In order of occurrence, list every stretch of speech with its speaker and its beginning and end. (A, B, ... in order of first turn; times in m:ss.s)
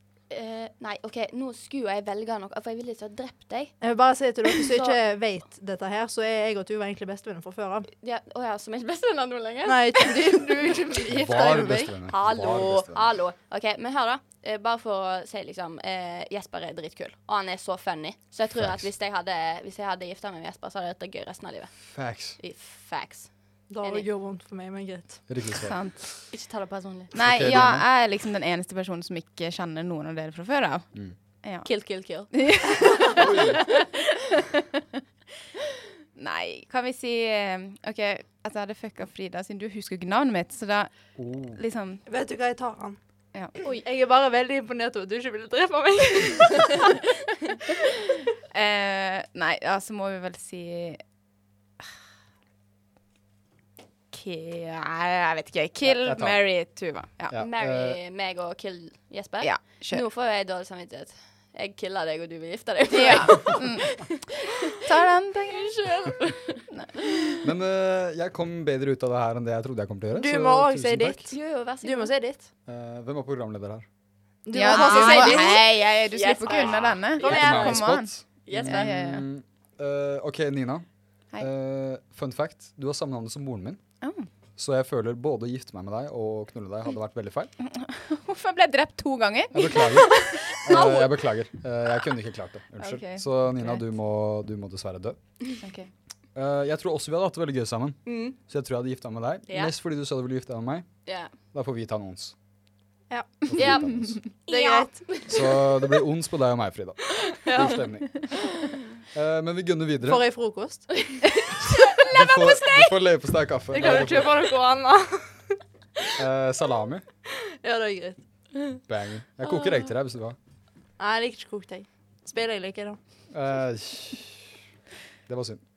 0:00.3-0:03.7 A
0:03.8-0:07.9 B
0:04.5-0:05.0 A
0:08.0-0:10.8 A
0:09.6-0:11.9 B
0:11.0-0:13.1 C
0:12.0-0:21.7 A
0:18.5-0:18.9 C
0:21.8-0:22.4 C
0:22.4-0:23.3 A
0:23.7-0:25.2 B
0:25.3-0:25.8 C
0:25.6-0:26.1 D
0:26.3-0:27.7 A
0:27.1-0:30.8 D
0:27.1-0:27.8 C
0:31.4-0:31.7 D
0:31.6-0:33.1 A
0:32.3-0:34.8 D
0:33.1-0:33.6 C
0:36.2-0:40.9 D
0:41.2-0:41.6 C
0:41.5-0:42.0 D
0:42.0-0:43.0 B
0:43.6-0:47.0 B
0:48.5-0:51.0 D
0:54.1-0:57.3 D
0:55.8-0:56.4 C
0:57.3-0:58.0 C
0:57.4-1:04.8 A
0:59.4-1:00.0 D
1:02.9-1:05.7 D
1:05.5-1:07.3 A
1:06.8-1:07.3 D
1:07.4-1:11.3 C
1:10.1-1:12.5 B
1:11.3-1:12.1 A
1:12.7-1:13.8 C
1:14.4-1:15.6 B
1:14.5-1:18.1 D
1:14.7-1:18.9 A
1:17.2-1:20.8 C
1:18.6-1:19.2 D
1:21.4-1:23.8 C
1:24.0-1:24.3 D
1:24.6-1:27.5 C
1:27.6-1:30.5 D
1:29.5-1:35.2 C
1:30.5-1:31.1 A
1:32.8-1:33.8 D
1:35.6-1:35.9 D
1:36.3-1:40.9 C
1:38.0-1:38.4 A
1:39.5-1:39.7 A
1:41.0-1:41.3 A
1:41.5-1:42.3 C
1:43.1-1:43.4 B
1:43.5-1:44.2 C
1:43.6-1:45.7 A
1:44.5-1:45.1 B
1:45.3-1:48.3 C
1:47.3-1:47.8 A
1:49.1-1:50.2 C
1:50.0-1:51.0 B
1:51.8-1:52.5 A
1:52.0-1:54.5 C
1:53.7-1:55.6 B
1:56.2-1:57.0 C
1:57.3-1:58.2 B
1:58.8-2:00.4 C
2:01.0-2:03.0 B
2:03.3-2:04.6 C
2:05.3-2:05.6 C